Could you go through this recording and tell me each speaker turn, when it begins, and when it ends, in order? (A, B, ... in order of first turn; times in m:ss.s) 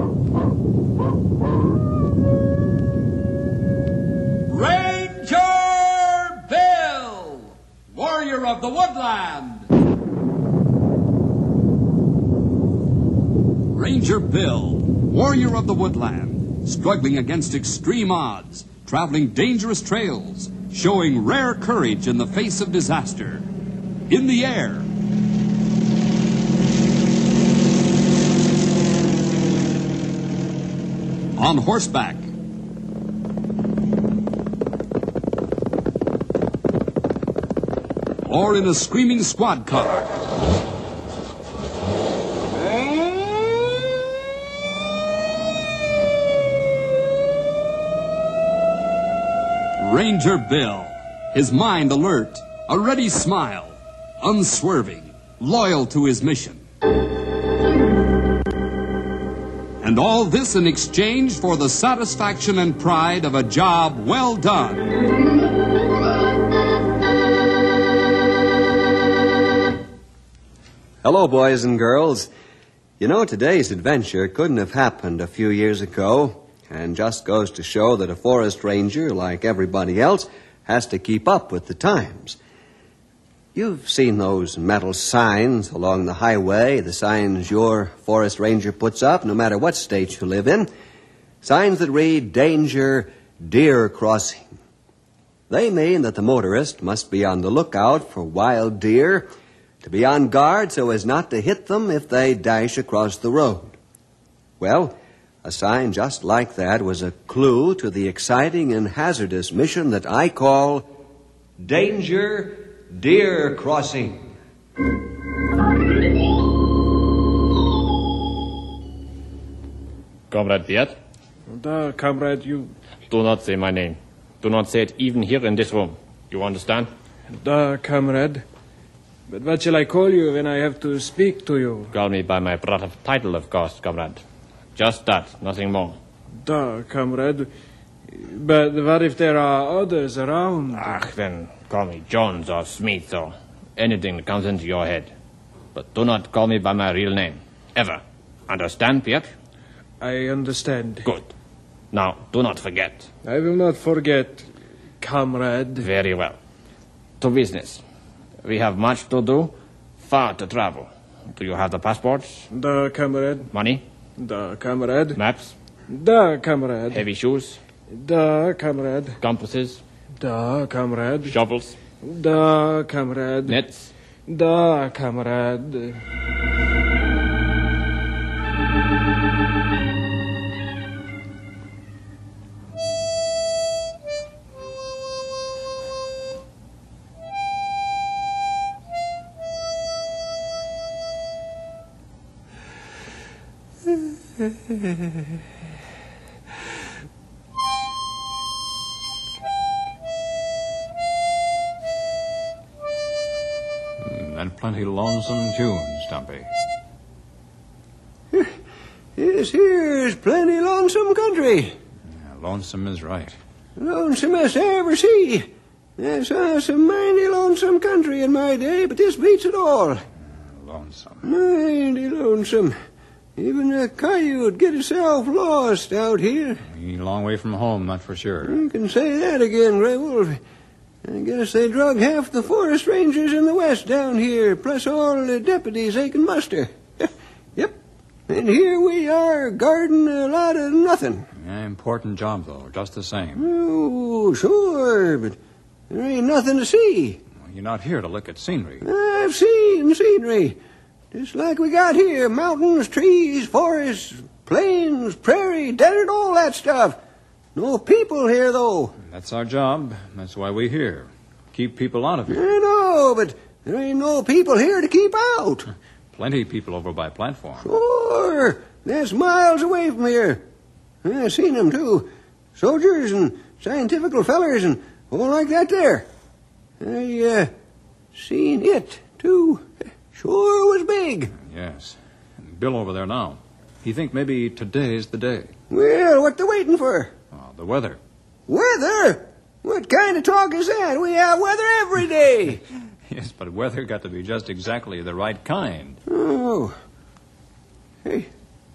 0:04.5-0:09.7 A
0:13.7-0:23.5 A
0:24.1-0:24.9 A
0:31.4-0:32.3 A
0:38.2-0:40.1 A
0:49.8-0:56.6 A
0:59.8-1:04.9 A
1:11.0-1:12.3 B
1:13.0-1:22.4 B
1:23.5-1:30.7 B
1:31.4-1:34.5 B
1:35.5-1:39.3 B
1:39.8-1:43.8 B
1:44.6-1:50.9 B
1:51.6-1:54.2 B
2:00.3-2:01.0 C
2:01.5-2:02.7 D
2:03.1-2:06.9 C
2:07.3-2:08.4 D
2:09.3-2:11.9 D
2:11.9-2:14.2 C
2:14.8-2:16.0 C
2:16.4-2:17.5 D
2:18.1-2:20.9 D
2:20.7-2:25.1 C
2:25.7-2:29.3 C
2:30.0-2:31.1 D
2:31.0-2:31.3 C
2:31.9-2:33.1 C
2:33.2-2:34.5 D
2:35.0-2:35.9 D
2:35.8-2:36.4 C
2:37.2-2:37.8 C
2:38.4-2:42.5 C
2:42.5-2:43.5 D
2:43.5-2:43.8 C
2:44.2-2:45.2 D
2:45.2-2:45.5 C
2:45.9-2:47.0 D
2:46.9-2:47.6 C
2:47.9-2:49.2 D
2:49.2-2:49.8 C
2:50.2-2:51.4 D
2:51.3-2:51.8 C
2:52.0-2:53.6 D
2:53.5-2:53.9 C
2:54.3-2:56.0 D
3:24.0-3:26.5 E
3:29.2-3:31.8 B
3:32.1-3:33.4 E
3:33.8-3:40.0 B
3:40.3-3:41.2 E
3:41.2-3:42.7 B
3:43.4-3:46.6 B
3:46.6-3:48.6 E
3:48.4-3:50.4 B
3:51.0-3:57.8 B
3:58.3-4:01.3 B
4:01.4-4:03.5 E
4:03.4-4:05.4 B
4:05.9-4:07.2 B
4:07.4-4:08.9 E
4:08.8-4:10.6 B
4:11.1-4:17.0 B
4:17.6-4:19.0 B
4:19.0-4:22.5 E
4:22.3-4:25.7 B
4:26.1-4:27.7 E
4:27.6-4:30.4 B
4:31.0-4:36.1 B
4:36.8-4:37.5 B
4:38.1-4:41.3 B
4:41.4-4:45.5 E
4:45.7-4:47.1 B
4:47.3-4:48.0 E
4:48.5-4:52.6 B
4:53.1-4:56.0 E
4:56.1-4:56.8 B
4:58.0-4:58.3 B